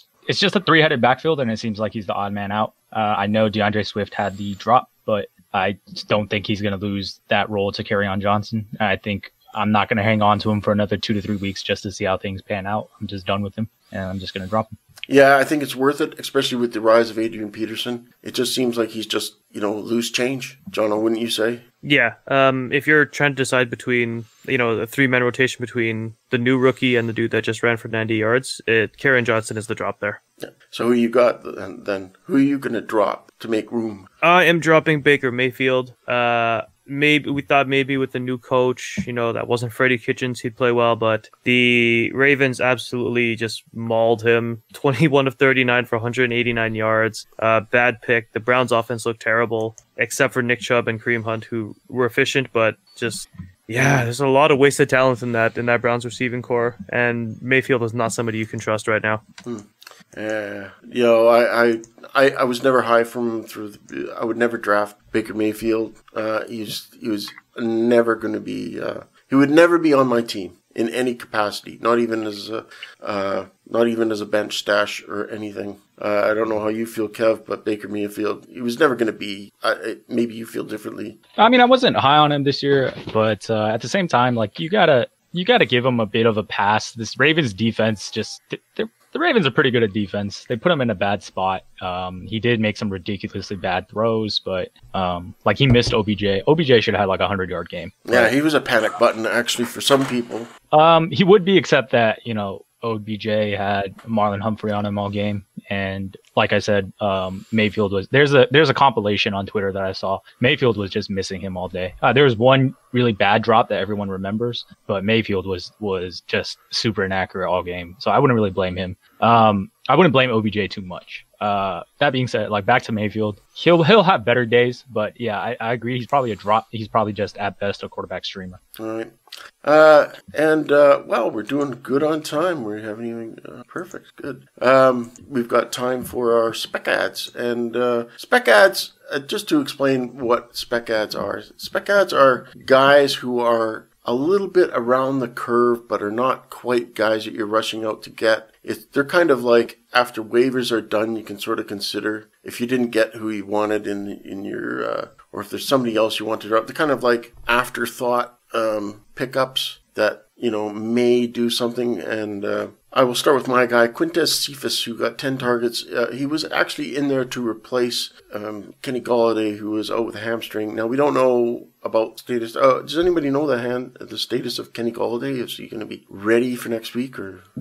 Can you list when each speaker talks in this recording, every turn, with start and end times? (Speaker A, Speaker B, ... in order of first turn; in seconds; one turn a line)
Speaker A: 0.3-14.8
Speaker B: 15.1-21.6
Speaker C: 21.8-30.2
Speaker B: 30.4-34.0
Speaker C: 34.2-59.2
Speaker B: 59.4-81.2
Speaker A: 81.4-98.3
Speaker B: 98.0-100.5
Speaker A: 100.7-128.6
Speaker B: 128.8-177.4